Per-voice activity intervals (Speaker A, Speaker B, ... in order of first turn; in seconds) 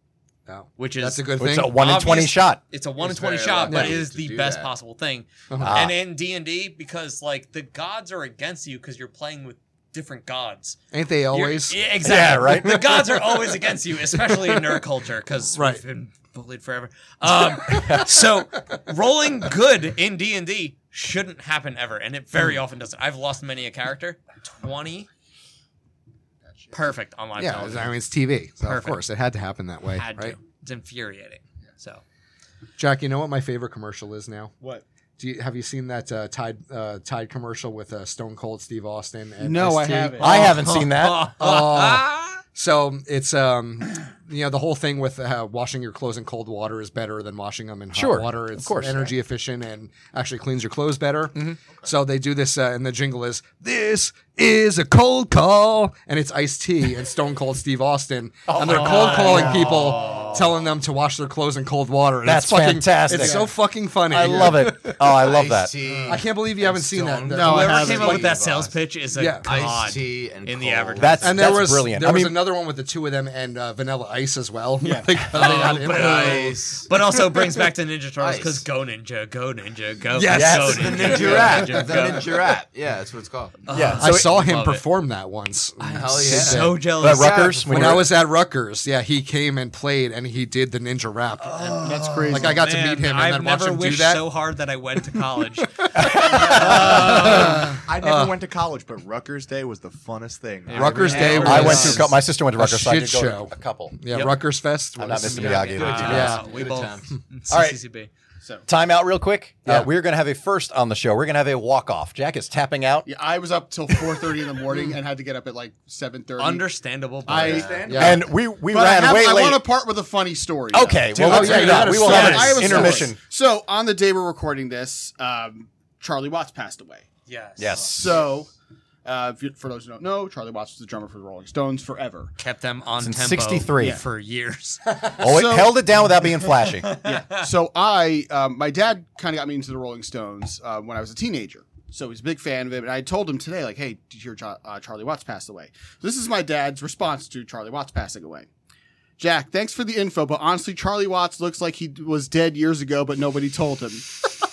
Speaker A: 0.5-1.8, 3.7-4.0, 5.5-5.9, 10.9-11.9, 13.0-13.4, 14.2-14.8, 15.5-15.8, 27.4-30.3, 32.8-34.5, 35.2-40.5, 41.4-65.0, 66.1-68.2, 69.1-69.5, 71.2-76.5, 80.1-81.7, 84.0-86.8, 87.7-94.2, 96.5-98.3, 100.7-106.4, 117.9-118.2, 121.2-123.1
Speaker B: 0.8-10.8, 11.3-25.1, 26.7-27.9, 28.6-29.0, 29.9-32.0, 40.2-42.4, 58.6-60.5, 67.4-71.3, 75.3-82.3, 83.7-84.8, 85.8-87.6, 91.4-97.7, 100.7-102.1, 105.4-108.1, 116.4-117.8, 121.5-122.6, 127.3-127.9, 132.4-134.8, 136.8-137.4
Speaker C: 1.4-2.6, 5.6-6.0, 12.0-13.0, 17.7-18.1, 40.2-41.3, 47.9-49.1, 51.3-51.6, 58.5-59.9, 62.2-63.5, 64.1-65.7, 71.0-72.4, 80.3-81.5, 83.7-84.3, 87.0-88.1, 95.9-97.1, 101.4-104.3, 105.0-106.4, 107.5-107.8, 108.7-113.1, 118.0-119.6, 120.7-123.2, 127.6-128.2, 133.0-134.0, 135.2-136.9
Speaker D: 3.0-4.7, 64.3-68.8, 69.4-71.5, 75.5-76.9, 78.2-78.7, 80.7-83.5, 85.9-88.1, 105.2-107.1
Speaker E: 39.4-40.4, 65.8-66.2, 67.3-68.3, 74.8-75.2, 91.8-92.7, 108.4-108.7, 113.0-116.7, 117.2-127.0, 127.9-128.5, 129.0-132.3, 133.8-134.0, 135.1-136.1, 137.0-148.5, 149.2-154.2
Speaker F: 97.0-101.9, 117.4-118.2